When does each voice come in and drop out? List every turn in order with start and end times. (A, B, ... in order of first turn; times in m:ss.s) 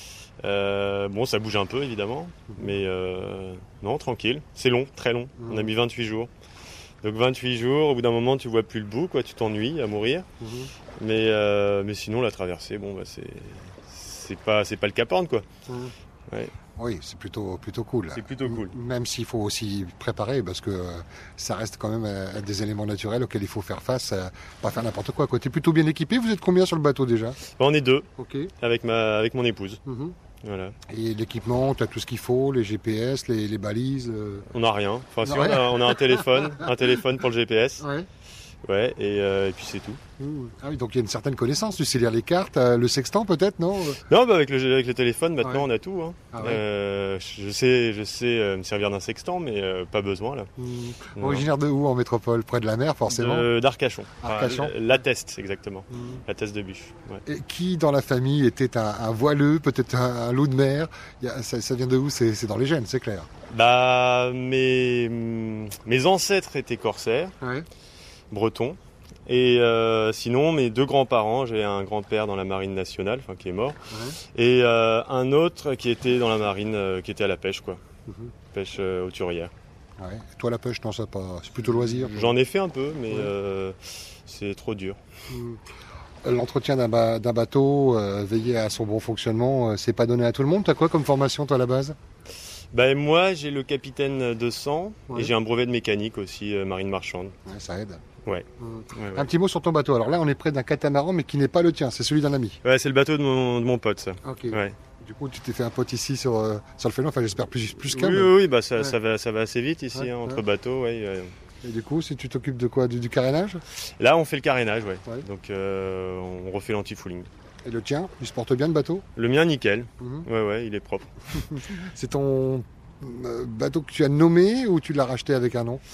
0:00.4-0:06.3 A
0:02.5-0:02.8 B
0:05.4-0:05.7 B
0:07.0-0:10.3 A
0:10.4-0:10.7 B
0:11.0-0:15.5 A
0:15.7-0:15.9 B
0:16.3-0:16.5 A
0:16.8-0:27.4 B
0:18.1-0:18.8 A
0:27.4-0:28.1 A
0:28.2-0:28.5 B
0:28.6-0:29.8 A
0:29.9-0:30.2 B
0:30.4-0:30.7 A
0:30.9-0:34.5 B
0:34.5-0:37.9 A
0:35.2-0:36.7 B
0:37.8-0:38.1 B
0:38.7-0:40.0 A
0:40.2-0:44.0 B
0:44.1-0:50.5 A
0:45.4-0:45.7 B
0:46.3-0:46.6 B
0:50.6-0:53.5 B
0:51.2-0:51.5 A
0:53.1-0:57.2 A
0:54.2-0:54.8 B
0:55.9-0:56.2 B
0:57.3-1:03.3 B
1:03.5-1:07.3 A
1:07.4-1:07.7 B
1:08.3-1:13.8 A
1:13.9-1:14.2 B
1:14.3-1:17.8 A
1:18.1-1:18.3 B
1:18.5-1:19.5 A
1:20.0-1:22.4 B
1:21.6-1:25.0 A
1:23.1-1:23.3 B
1:25.3-1:25.6 B
1:26.2-1:32.0 B
1:32.7-1:37.3 A
1:37.5-1:38.0 B
1:38.2-1:39.3 A
1:38.6-1:42.6 B
1:42.6-1:44.8 A
1:44.2-1:49.0 B
1:47.8-1:51.3 A
1:49.9-1:50.4 B
1:51.6-1:53.6 B
1:53.8-1:57.3 A
1:57.6-1:59.0 B
1:59.2-2:01.5 A
2:00.0-2:00.3 B
2:01.4-2:05.8 B